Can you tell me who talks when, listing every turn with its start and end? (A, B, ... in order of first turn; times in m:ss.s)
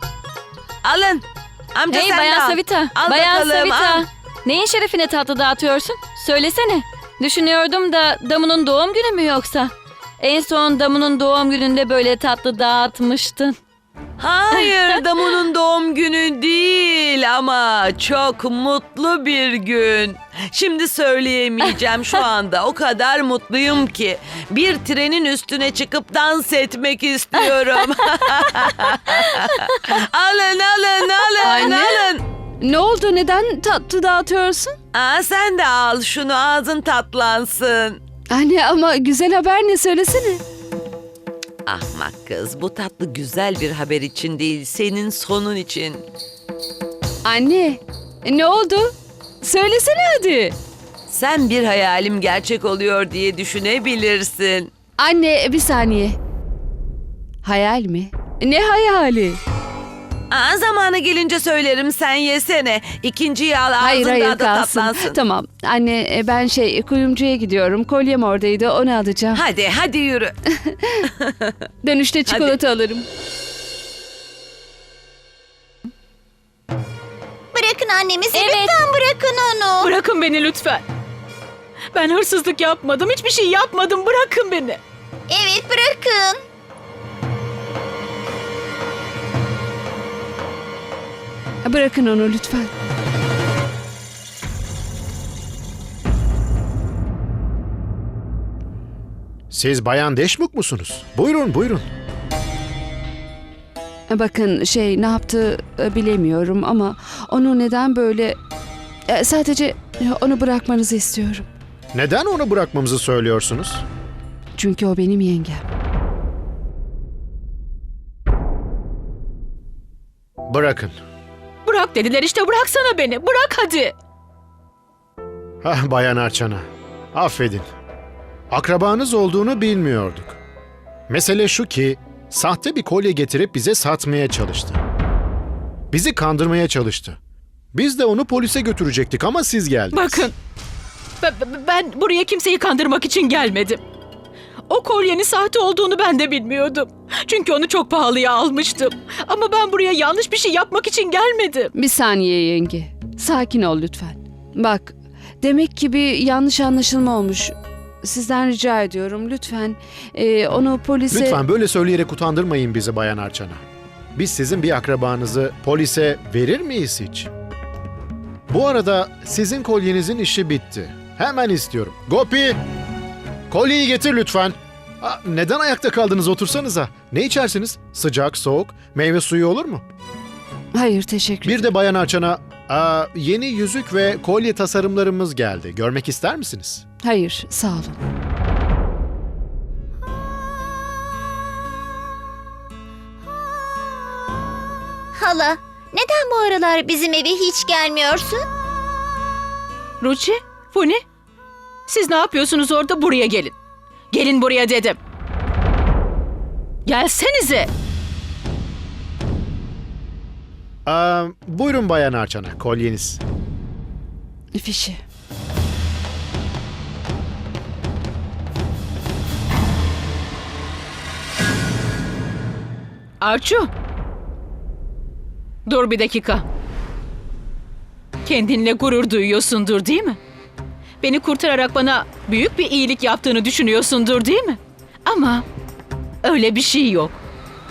0:00.8-0:04.0 A
0:01.9-0:13.6 B
0:14.2-0:32.2 A
0:31.4-0:34.8 C
0:34.9-0:38.0 A
0:38.3-0:40.4 C
0:41.6-0:46.0 A
0:47.2-0:50.6 C
0:51.1-0:54.7 A
0:55.0-0:56.2 C
0:57.4-0:59.4 C
1:00.3-1:05.2 A
1:03.8-1:09.4 C
1:09.3-1:10.4 A
1:11.8-1:13.0 C
1:12.3-1:12.6 A
1:17.5-1:19.9 D
1:18.3-1:18.7 B
1:19.8-1:20.8 E
1:21.9-1:24.8 E
1:25.3-1:26.4 D
1:31.6-1:32.7 C
1:39.5-1:41.8 F
1:44.1-1:48.4 C
1:49.1-1:51.4 C
1:51.9-1:53.8 F
1:54.6-1:55.6 C
2:00.5-2:00.9 F
2:01.6-2:03.9 E
2:05.6-2:07.6 F
2:08.5-2:10.4 F
2:11.1-2:14.8 F
2:15.9-2:17.2 F
2:17.7-2:20.3 F
2:19.9-2:20.3 E
2:21.2-2:23.8 E
2:24.7-2:31.7 E
2:31.7-2:41.4 C
2:41.1-2:43.6 F
2:44.1-2:47.3 F
2:48.5-2:52.6 F
2:53.5-2:59.8 F
3:00.7-3:01.7 C
3:01.4-3:06.8 F
3:07.0-3:08.0 C
3:15.2-3:18.4 D
3:20.0-3:21.0 E
3:21.9-3:23.5 E
3:24.1-3:25.0 E
3:26.8-3:27.7 E
3:30.8-3:33.2 F
3:34.5-3:35.0 C
3:43.2-3:43.7 E
3:45.6-3:46.4 E
3:48.2-3:50.2 E
3:51.0-3:55.4 E
3:56.2-3:57.2 E